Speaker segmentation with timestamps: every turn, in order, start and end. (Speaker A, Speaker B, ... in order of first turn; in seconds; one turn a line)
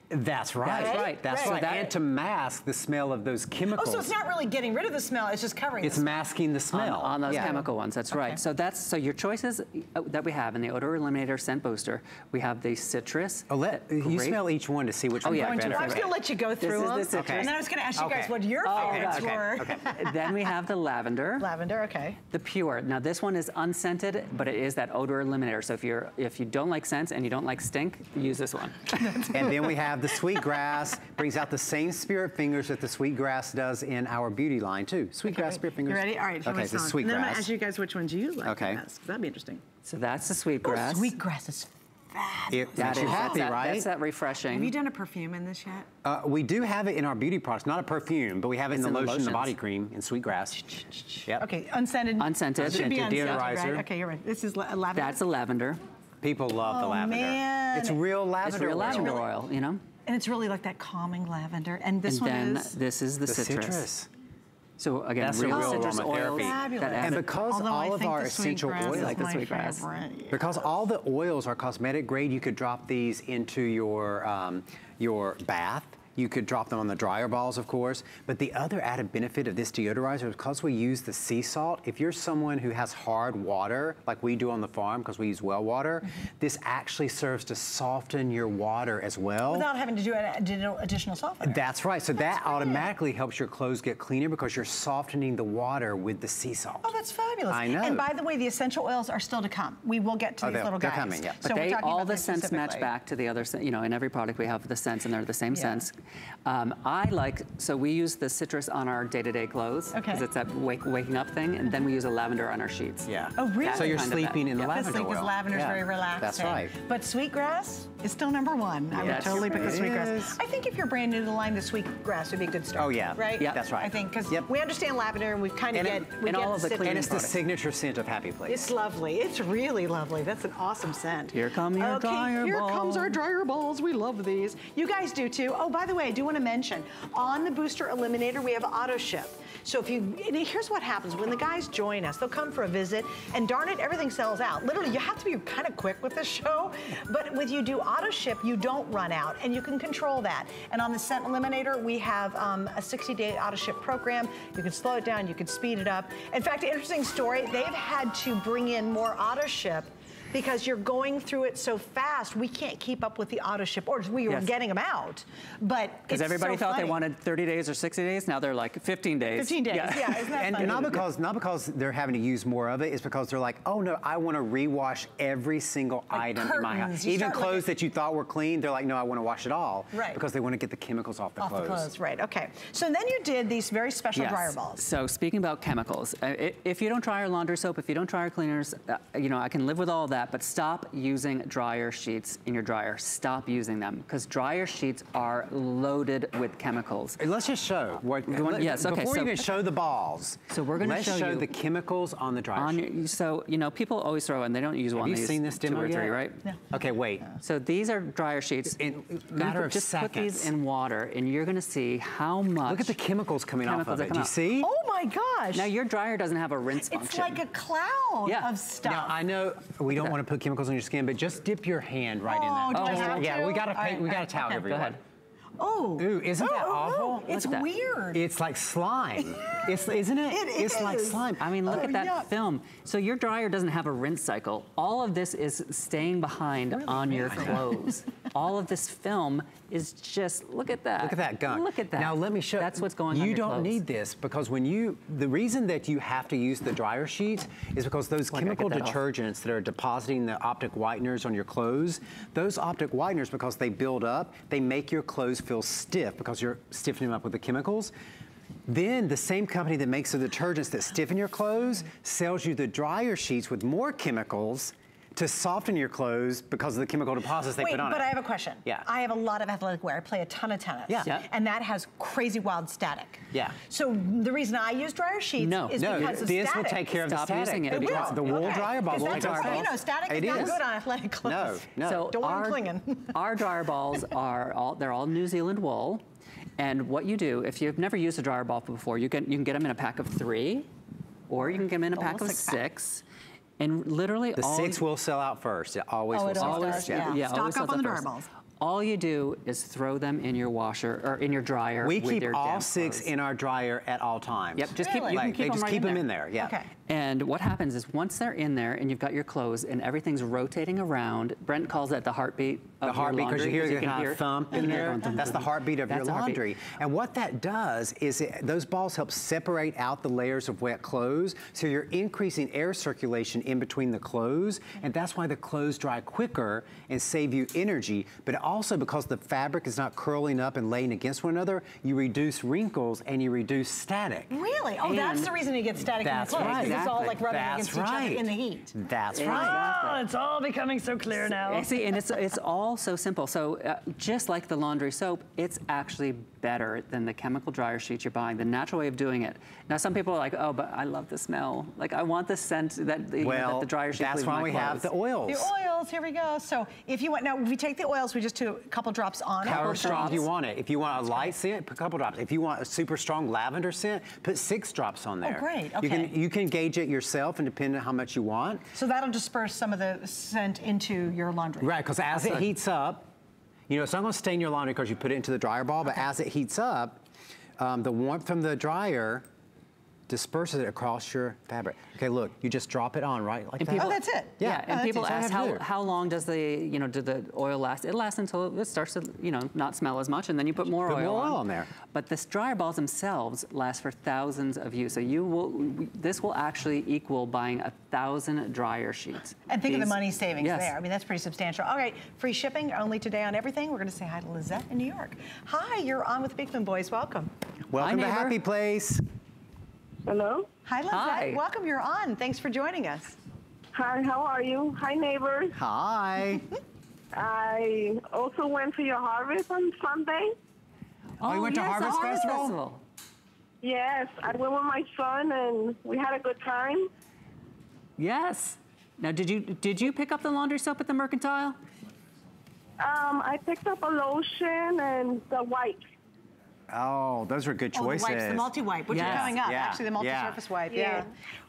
Speaker A: 0.1-4.1
Speaker B: 0.6-1.9
Speaker C: 0.7-1.6
Speaker C: 3.7-6.1
Speaker A: 5.8-7.5
Speaker B: 6.7-14.4
Speaker C: 7.3-8.4
Speaker A: 13.5-16.1
Speaker B: 15.2-17.5
Speaker C: 15.2-20.2
Speaker A: 17.1-19.9
Speaker B: 18.6-21.5
Speaker C: 21.4-22.2
Speaker B: 22.3-29.2
Speaker C: 29.0-29.9
Speaker A: 29.3-37.5
Speaker C: 35.3-39.6
Speaker A: 38.4-38.8
Speaker B: 39.8-41.1
Speaker C: 40.6-43.5
Speaker A: 42.5-43.9
Speaker B: 42.8-44.7
Speaker C: 44.5-45.9
Speaker A: 46.0-51.4
Speaker B: 48.7-49.5
Speaker C: 50.7-55.2
Speaker B: 52.2-53.5
Speaker A: 52.6-53.9
Speaker B: 54.9-55.8
Speaker A: 56.2-59.2
Speaker C: 56.6-58.0
Speaker B: 58.4-59.8
Speaker C: 58.7-59.3
Speaker C: 60.0-62.7
Speaker B: 62.0-63.9
Speaker A: 63.3-64.1
Speaker B: 64.8-67.3
Speaker A: 65.2-69.3
Speaker C: 65.5-70.6
Speaker B: 68.8-69.8
Speaker A: 70.3-89.7
Speaker C: 89.5-91.6
Speaker A: 91.4-96.9
Speaker C: 92.1-92.9
Speaker C: 96.8-102.9
Speaker A: 97.5-98.1
Speaker A: 100.4-101.4
Speaker B: 101.4-114.8
Speaker C: 105.5-105.8
Speaker C: 109.9-110.2
Speaker A: 113.1-116.7
Speaker C: 113.4-127.2
Speaker A: 118.9-120.4
Speaker B: 119.0-119.8
Speaker A: 122.8-124.5
Speaker A: 125.7-126.1
Speaker B: 126.1-127.4
Speaker A: 126.8-128.6
Speaker C: 128.5-167.0
Speaker B: 131.3-133.2
Speaker B: 164.3-164.5
Speaker B: 166.1-171.0
Speaker C: 169.3-171.0
Speaker A: 170.3-181.9
Speaker C: 176.1-177.7
Speaker C: 179.9-180.2
Speaker C: 181.4-184.8
Speaker B: 184.1-197.2
Speaker A: 197.2-202.8
Speaker B: 198.3-199.5
Speaker B: 200.5-201.5
Speaker B: 202.5-206.4
Speaker A: 205.0-207.2
Speaker B: 207.4-208.8
Speaker A: 208.8-210.5
Speaker B: 209.3-212.9
Speaker A: 212.7-214.7
Speaker B: 213.6-214.4
Speaker C: 214.6-215.7
Speaker B: 215.5-217.4
Speaker C: 216.8-219.1
Speaker B: 218.2-218.5
Speaker A: 218.8-225.0
Speaker B: 219.9-220.2
Speaker C: 222.3-224.6
Speaker B: 222.7-223.3
Speaker B: 224.6-225.0
Speaker C: 225.6-228.2
Speaker A: 226.0-227.4
Speaker B: 227.3-227.7
Speaker A: 228.1-231.8
Speaker C: 229.2-229.7
Speaker C: 230.3-232.3
Speaker B: 231.4-243.8
Speaker C: 236.7-237.6
Speaker A: 241.0-257.9
Speaker B: 248.3-249.0
Speaker A: 258.7-268.9
Speaker C: 267.6-276.9
Speaker A: 273.3-273.6
Speaker B: 275.4-276.3
Speaker A: 275.8-280.6
Speaker B: 277.0-279.7
Speaker C: 277.7-283.1
Speaker B: 280.3-280.6
Speaker A: 281.2-282.2
Speaker B: 281.8-282.6
Speaker B: 283.1-286.0
Speaker B: 286.6-290.7
Speaker B: 291.3-293.0
Speaker C: 291.4-292.6
Speaker B: 293.6-294.8
Speaker A: 294.4-297.1
Speaker C: 296.1-298.3
Speaker B: 296.3-298.1
Speaker B: 298.6-303.1
Speaker A: 301.8-306.5
Speaker B: 304.6-306.1
Speaker C: 304.8-305.2
Speaker C: 306.4-306.7
Speaker B: 306.9-316.4
Speaker A: 312.8-334.3
Speaker C: 314.6-315.1
Speaker C: 334.3-341.7
Speaker B: 334.8-335.3
Speaker A: 336.0-339.6
Speaker B: 336.3-337.2
Speaker B: 339.1-340.0
Speaker B: 341.3-354.9
Speaker A: 353.2-355.5
Speaker C: 355.3-360.3
Speaker A: 359.4-368.7
Speaker B: 359.4-360.2
Speaker C: 365.2-366.1
Speaker C: 368.7-371.8
Speaker A: 371.6-373.1
Speaker B: 372.1-372.4
Speaker A: 373.7-377.0
Speaker A: 377.6-379.2
Speaker A: 380.1-385.6
Speaker B: 383.6-400.7
Speaker C: 383.8-384.3
Speaker A: 390.7-391.7
Speaker C: 399.5-407.3
Speaker A: 407.7-409.0
Speaker B: 407.8-408.4
Speaker D: 410.1-410.5
Speaker C: 410.6-413.1
Speaker B: 410.9-411.4
Speaker D: 413.7-415.6
Speaker A: 415.5-416.4
Speaker D: 417.1-420.4
Speaker B: 421.2-422.8
Speaker A: 421.2-422.6
Speaker D: 423.6-426.9
Speaker B: 428.0-431.6
Speaker D: 432.8-435.8
Speaker A: 436.7-440.4
Speaker C: 437.7-441.1
Speaker B: 438.9-439.3
Speaker D: 440.7-441.1